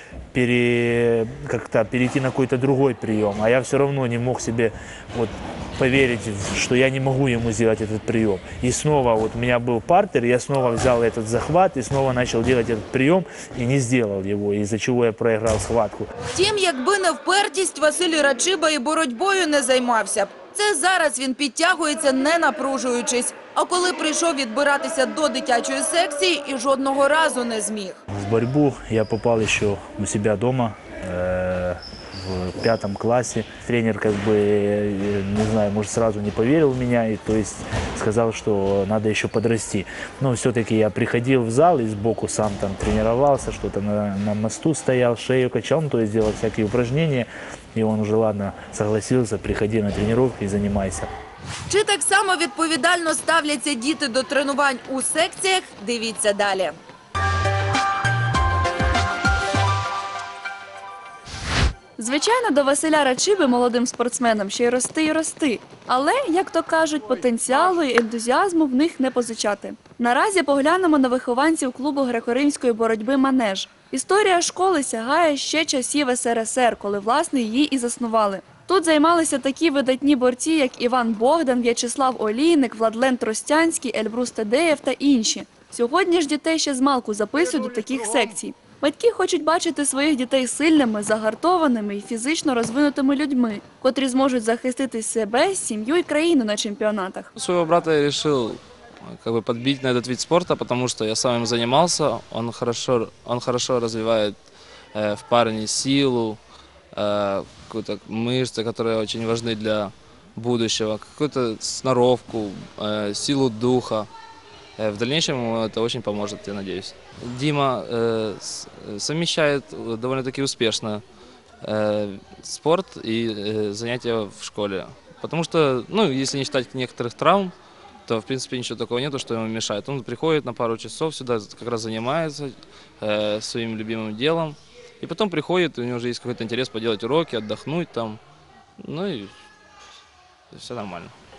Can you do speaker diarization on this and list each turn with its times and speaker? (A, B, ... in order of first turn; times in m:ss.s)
0:00.3-0:16.1 A
0:16.3-0:28.0 B
0:28.1-0:51.1 A
0:51.7-0:56.8 B
1:02.0-1:37.3 C
1:37.4-1:44.4 D
1:44.9-1:46.4 D
1:46.9-1:54.1 D
1:54.8-2:01.0 D
2:01.6-2:07.5 D
2:08.1-2:18.2 D
2:18.8-2:19.3 D
2:20.5-2:21.1 D